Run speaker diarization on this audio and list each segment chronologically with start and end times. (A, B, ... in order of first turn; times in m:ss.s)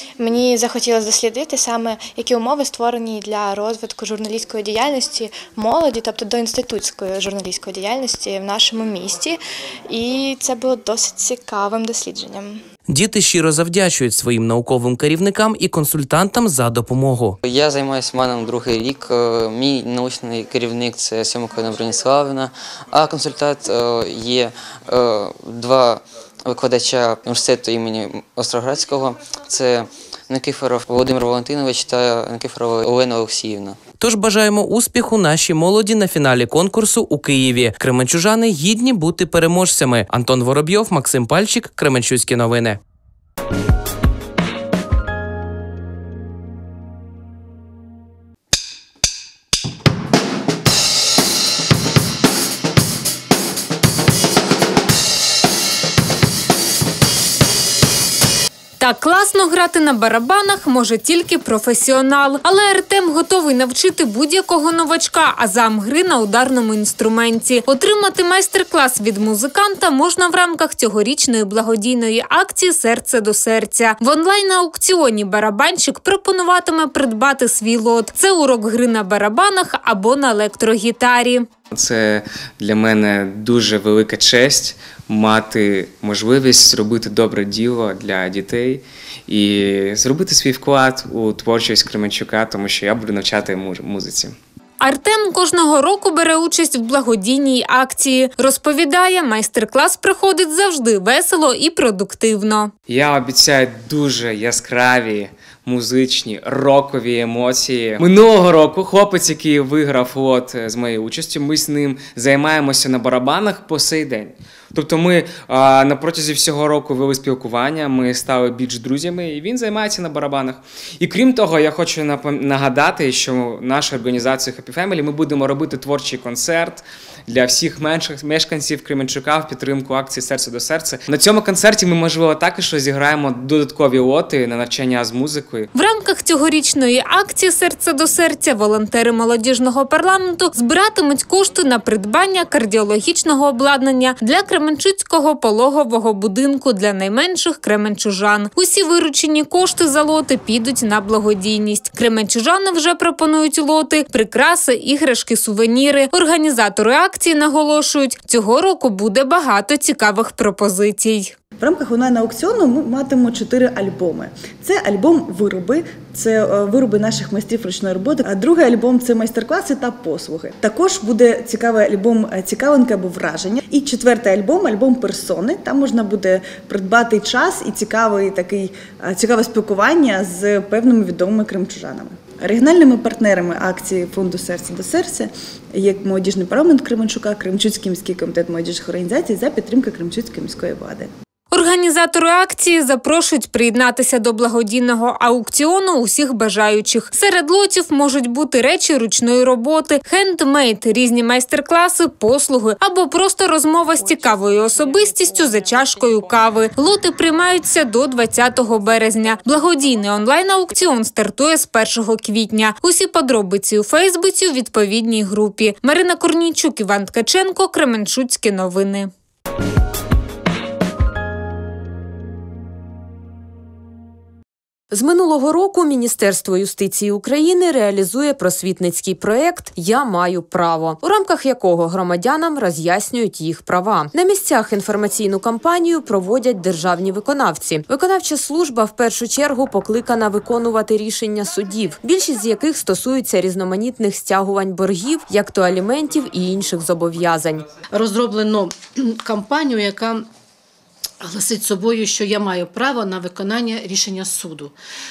0:00.2-0:12.6 A
0:12.9-0:17.4 B
0:17.4-0:33.8 C
0:34.0-0:42.8 B
0:58.8-1:21.5 D
1:21.7-1:34.3 E
1:34.8-1:42.7 D
1:42.9-2:15.7 E
2:15.7-2:41.3 D
2:41.6-3:11.1 F
3:11.5-3:39.1 D
3:44.9-4:07.6 G
4:07.9-4:10.3 H
4:11.2-4:14.7 H